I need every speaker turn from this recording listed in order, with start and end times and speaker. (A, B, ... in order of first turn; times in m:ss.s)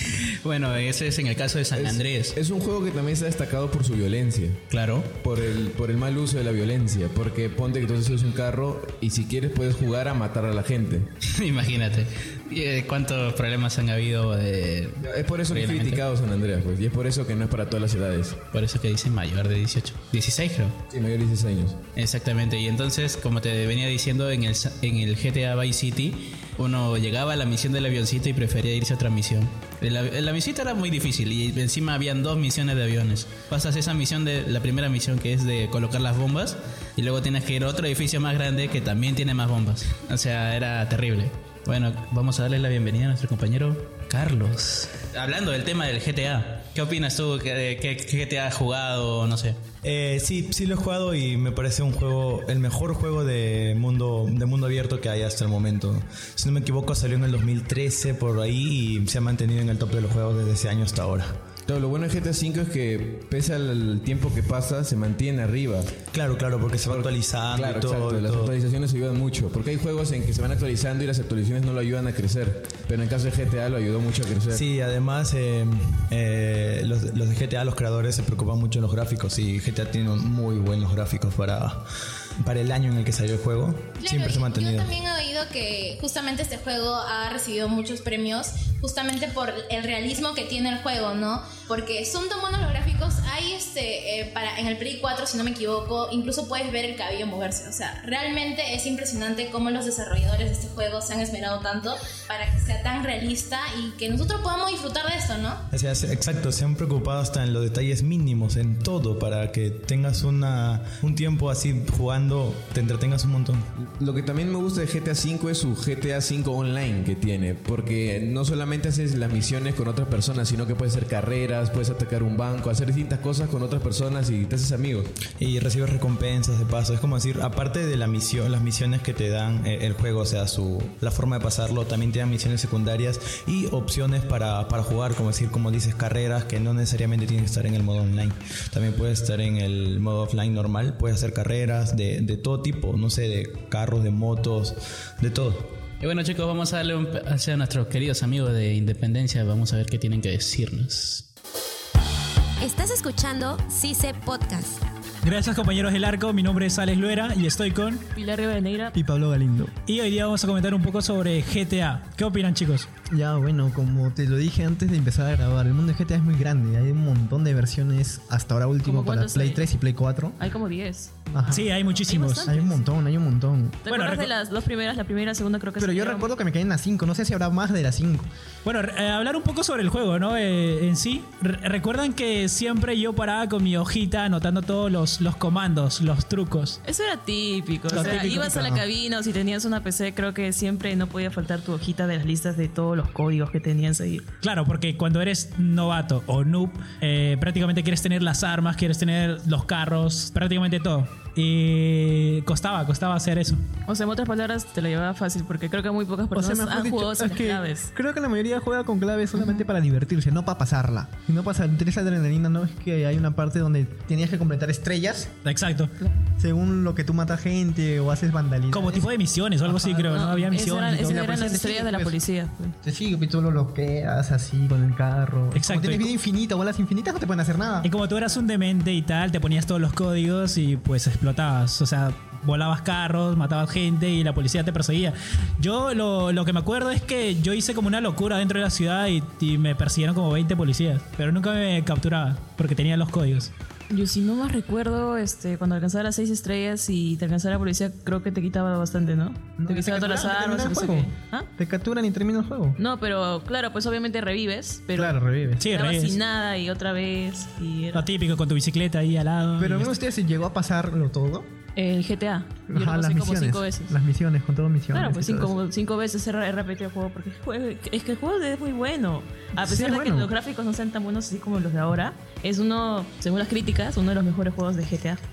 0:00.4-0:02.4 A
0:01.7-0:04.6 B
0:04.7-0:05.1 A
0:05.2-0:11.1 B
0:11.4-0:16.0 A
0:15.0-0:18.4 B
0:18.5-0:20.8 A
0:20.9-0:21.8 B
0:22.0-0:49.6 A
0:49.8-1:01.3 C
1:01.7-1:05.9 B
1:06.1-1:08.5 C
1:06.8-1:14.6 B
1:14.5-1:21.8 C
1:22.4-1:24.9 C
1:24.0-1:45.6 D
1:45.7-1:53.7 C
1:53.8-2:05.1 B
2:05.4-2:25.8 C
2:26.0-2:31.3 A
2:32.6-2:34.8 E
2:35.2-2:38.0 F
2:38.1-2:39.0 G
2:39.0-2:39.7 H
2:39.9-2:42.9 F
2:43.1-2:50.4 H
2:48.8-2:49.7 G
2:50.4-2:51.1 G
2:51.3-2:51.7 H
2:51.5-2:52.6 F
2:51.8-2:52.8 G
2:52.5-2:53.8 H
2:53.8-2:56.3 G
2:53.9-2:54.3 F
2:55.8-2:58.3 H
2:58.6-3:06.8 F
3:06.8-3:14.2 G
3:07.9-3:08.6 F
3:08.0-3:08.8 H
3:14.4-3:23.6 F
3:23.9-3:27.9 G
3:26.3-3:35.3 H
3:35.4-3:35.9 F
3:36.0-3:36.2 G
3:36.4-3:39.1 H
3:38.7-3:41.2 F
3:39.7-3:40.1 H
3:40.0-3:42.7 G
3:41.0-3:42.2 H
3:42.8-3:47.9 H
3:45.5-3:46.2 F
3:47.8-4:03.5 F
4:03.9-4:11.5 G
4:09.6-4:12.8 H
4:12.8-4:18.1 G
4:15.0-4:15.7 H
4:15.6-4:16.2 F
4:17.9-4:19.9 F
4:19.6-4:21.5 H
4:21.8-4:23.9 G
4:22.7-4:25.5 H
4:24.9-4:35.2 G
4:29.5-4:30.3 H